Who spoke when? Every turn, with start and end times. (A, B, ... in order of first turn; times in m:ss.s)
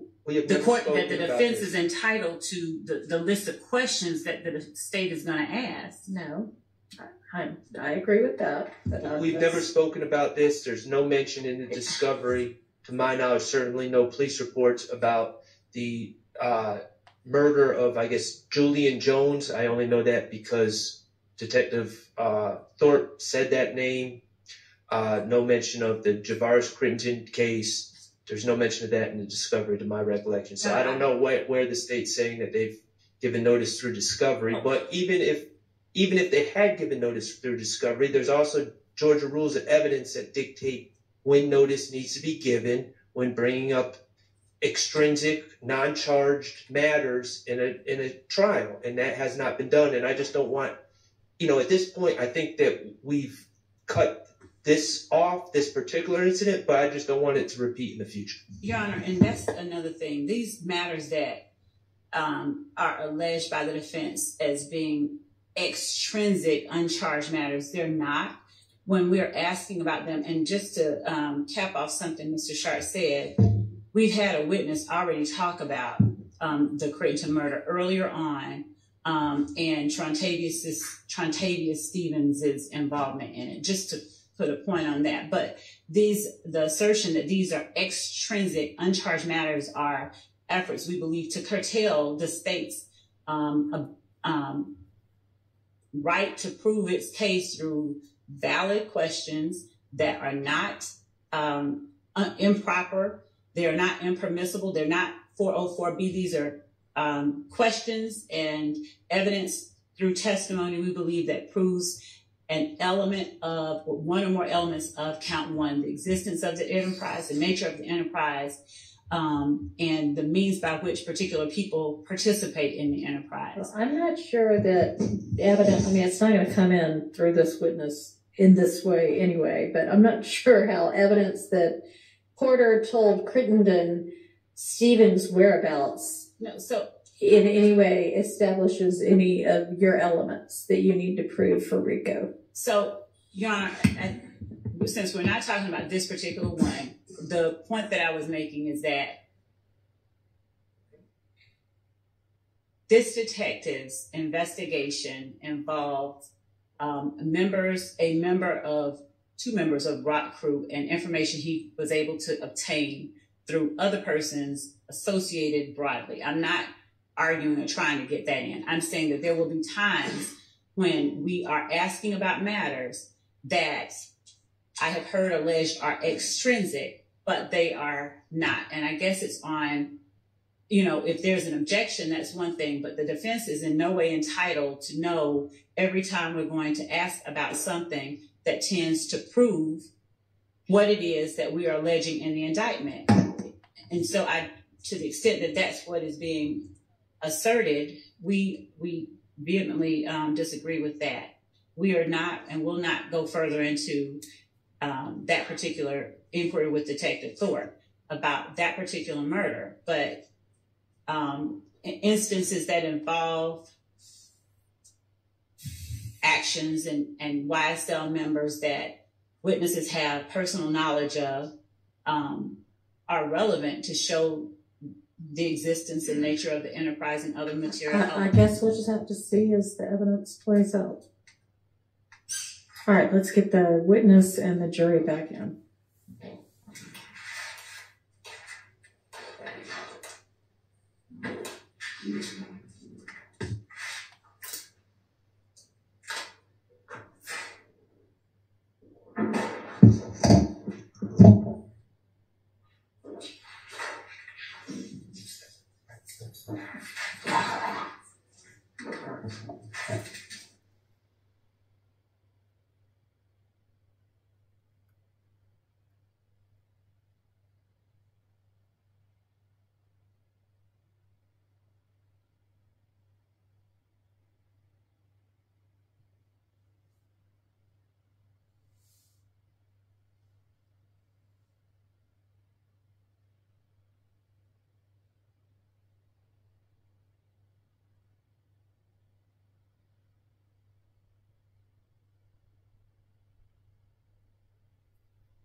0:00.2-0:01.7 A
0:00.5-0:06.1 B
0:06.1-0:09.6 C
0:09.1-0:24.2 A
0:24.9-0:44.0 A
0:30.6-0:31.0 B
0:44.6-0:50.7 A
0:51.4-0:58.4 A
0:58.6-1:01.4 B
1:02.1-1:08.3 B
1:08.8-1:13.4 B
1:13.9-1:34.7 B
1:35.9-1:58.6 B
1:59.1-2:03.7 B
2:03.6-2:11.8 C
2:12.4-2:16.3 C
2:16.4-2:16.9 B
2:17.2-2:22.3 C
2:22.5-2:29.2 B
2:32.9-2:36.3 B
2:36.8-2:53.9 B
2:54.8-2:59.9 B
3:00.7-3:09.9 B
3:10.7-3:16.6 B
3:17.2-3:24.2 B
3:24.8-3:30.2 B
3:31.1-3:33.7 B
3:36.2-3:41.5 B
3:42.1-3:44.5 B
3:45.3-3:48.3 B
3:47.9-3:51.0 C
3:52.8-3:55.6 C